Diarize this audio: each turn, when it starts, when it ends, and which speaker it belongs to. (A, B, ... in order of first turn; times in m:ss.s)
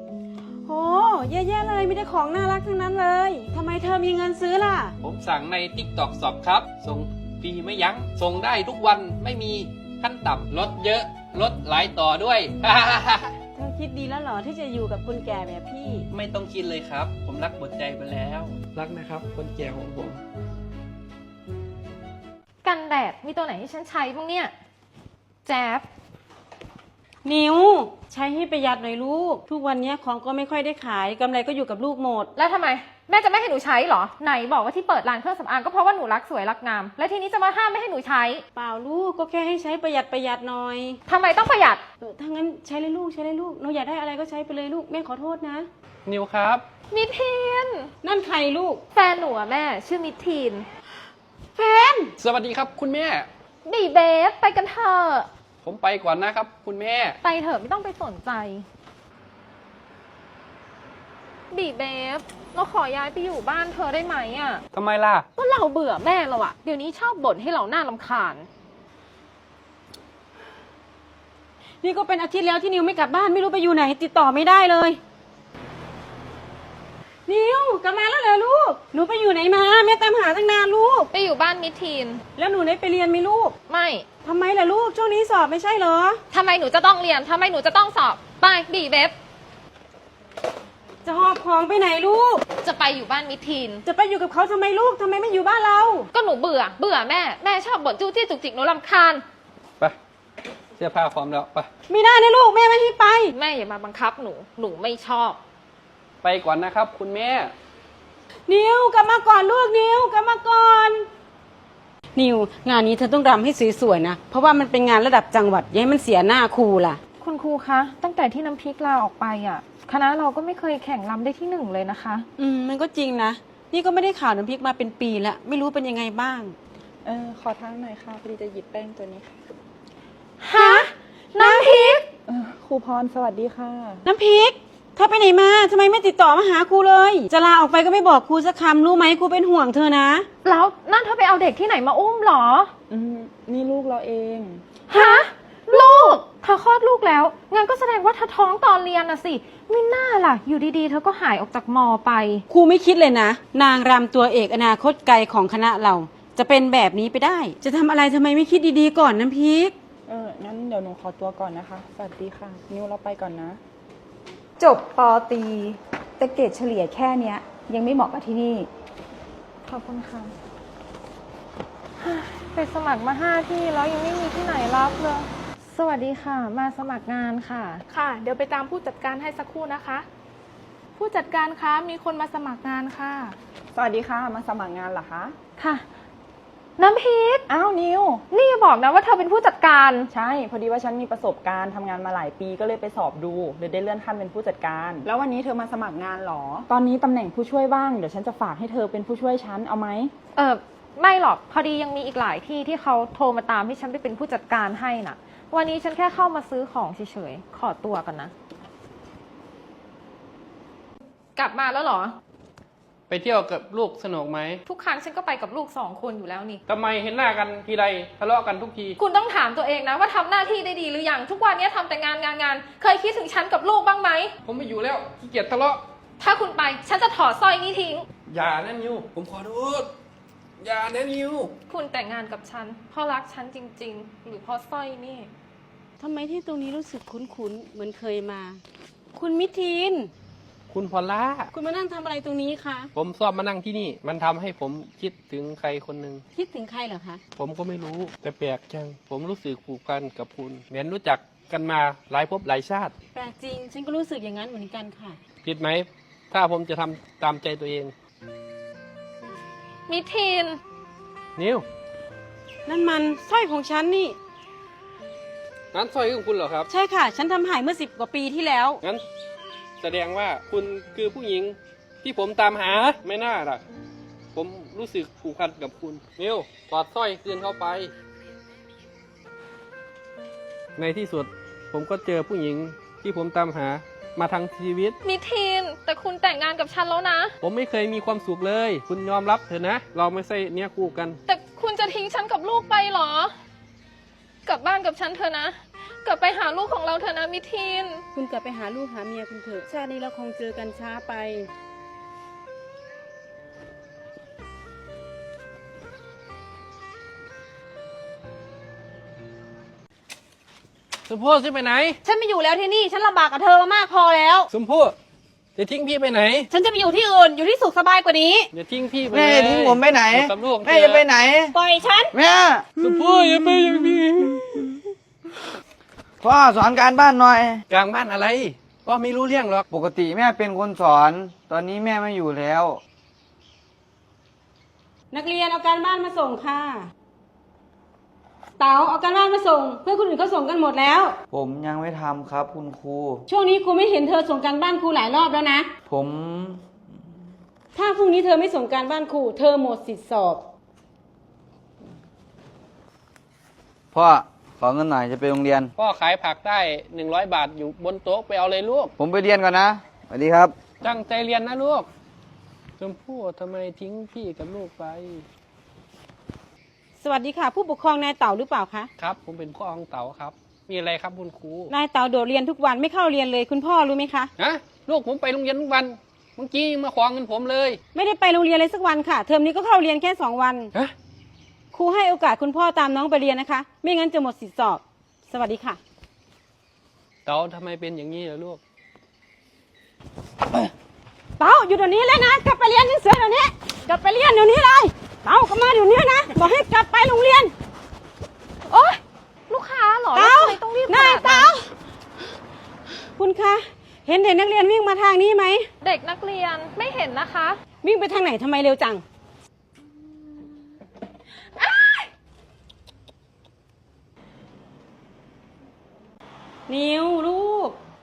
0:00.6-0:04.9 A
0:05.0-0:13.3 B
0:13.5-0:16.1 A
0:16.1-0:20.2 B
0:22.6-0:24.5 C
0:25.4-0:25.8 C
0:27.2-0:32.3 A
0:32.3-0:38.4 C
0:38.5-0:41.0 A
0:41.0-0:41.8 C
0:42.0-0:45.7 A
0:46.0-0:46.6 B
0:46.9-0:47.9 C
0:48.0-0:48.8 A
0:48.9-0:50.7 C
0:51.5-0:52.1 A
0:52.2-0:53.3 B
0:53.6-0:55.3 C
0:55.6-0:57.2 B
0:57.2-0:58.6 C
1:01.5-1:04.6 C
1:04.7-1:05.2 B
1:05.4-1:08.5 C
1:11.8-1:15.0 A
1:17.3-1:21.1 A
1:21.1-1:22.2 C
1:22.4-1:23.5 A
1:23.7-1:24.0 C
1:24.2-1:26.2 A
1:26.3-1:29.1 C
1:31.0-1:32.4 A
1:32.6-1:33.8 C
1:33.8-1:36.1 A
1:36.1-1:39.2 C
1:40.8-1:41.7 B
1:41.8-1:43.3 A
1:43.3-1:45.4 C
1:46.2-1:47.5 B
1:48.5-1:51.1 A
1:52.2-1:57.0 A
1:57.2-2:02.3 C
2:02.4-2:06.5 A
2:07.0-2:09.3 D
2:10.4-2:12.0 C
2:10.5-2:12.0 A
2:12.3-2:14.0 D
2:14.0-2:20.3 A
2:20.4-2:22.7 C
2:22.9-2:24.6 D
2:24.9-2:32.4 C
2:24.9-2:26.2 A
2:32.5-2:39.7 A
2:40.1-2:43.6 D
2:44.6-2:48.7 E
2:49.6-2:50.3 C
2:52.0-2:57.8 C
2:57.9-3:00.1 F
3:01.0-3:03.4 F
3:03.7-3:05.4 D
3:05.6-3:05.8 C
3:06.8-3:07.4 C
3:07.5-3:08.2 D
3:08.3-3:10.1 C
3:10.1-3:20.1 D
3:20.4-3:28.3 C
3:31.4-3:32.2 C
3:33.1-3:34.6 B
3:34.6-3:36.6 C
3:36.7-3:39.0 B
3:39.0-3:44.3 C
3:44.4-3:45.8 B
3:46.2-3:48.1 C
3:48.3-3:49.9 B
3:50.6-3:51.5 B
3:51.7-3:55.3 C
3:56.0-3:58.6 A
3:59.1-4:00.1 A
4:00.7-4:01.5 B
4:01.5-4:02.9 A
4:02.9-4:06.2 B
4:06.3-4:07.2 A
4:07.4-4:12.9 B
4:13.1-4:15.2 A
4:15.4-4:17.9 B
4:19.9-4:20.6 C
4:21.4-4:21.6 B
4:22.6-4:24.2 A
4:25.7-4:26.7 B
4:26.7-4:28.8 A
4:29.8-4:33.6 B
4:34.3-4:37.9 B
4:40.8-4:45.0 B
4:45.0-4:47.3 C
4:47.4-4:51.2 B
4:51.2-4:53.3 C
4:54.4-4:58.0 C
4:58.1-5:01.5 A
5:11.1-5:12.0 B
5:14.5-5:14.9 B
5:15.6-5:16.5 B
5:16.5-5:18.0 A
5:18.5-5:21.1 B
5:19.1-5:21.6 G
5:21.5-5:22.1 A
5:22.1-5:22.6 G
5:22.8-5:24.6 B
5:26.2-5:27.6 G
5:27.7-5:29.6 B
5:29.7-5:32.8 G
5:35.1-5:36.9 A
5:38.6-5:41.2 A
5:41.3-5:43.2 G
5:43.3-5:45.7 A
5:45.9-5:46.6 G
5:47.7-5:50.4 A
5:53.9-5:55.7 G
5:55.8-5:58.9 B
5:59.0-6:00.5 G
6:00.8-6:01.9 B
6:02.8-6:05.2 B
6:07.0-6:08.9 A
6:09.0-6:11.7 B
6:11.7-6:14.3 A
6:14.4-6:17.8 B
6:17.9-6:20.7 A
6:21.7-6:25.8 A
6:27.2-6:28.6 B
6:31.4-6:37.5 A
6:38.7-6:41.5 C
6:40.1-6:41.7 A
6:43.1-6:45.7 A
6:45.8-6:47.6 C
6:47.8-6:49.0 A
6:51.6-6:52.1 C
6:56.7-6:57.8 A